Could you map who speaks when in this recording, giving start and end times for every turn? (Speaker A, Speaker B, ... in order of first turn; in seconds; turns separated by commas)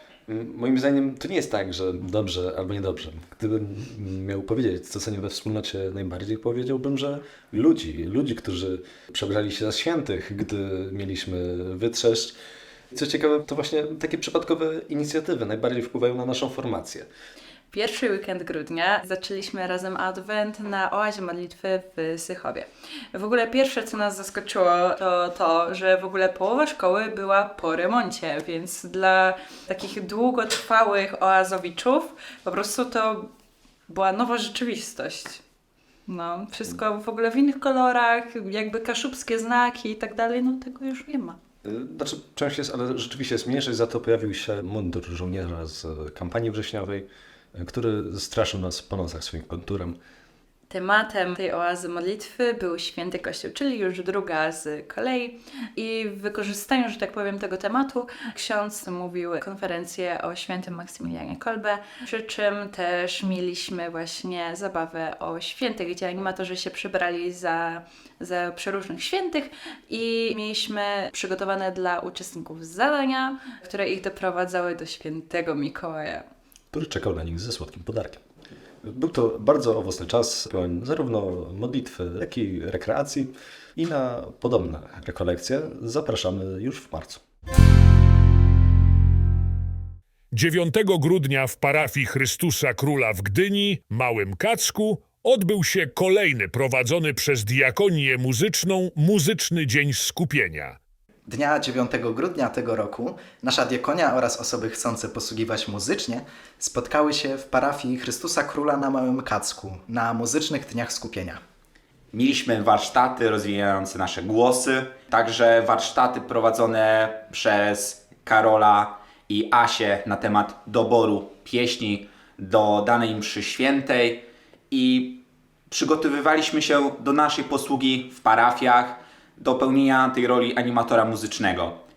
Speaker A: 0.3-12.4, Speaker A: 12.9-17.1, Speaker B: 17.7-33.3, Speaker B: 33.9-35.4, Speaker B: 36.1-41.4, Speaker A: 41.6-50.0, Speaker B: 50.7-76.2, Speaker A: 76.7-78.2, Speaker A: 78.8-87.2, Speaker C: 90.3-100.8, Speaker D: 101.3-111.4, Speaker E: 112.1-131.8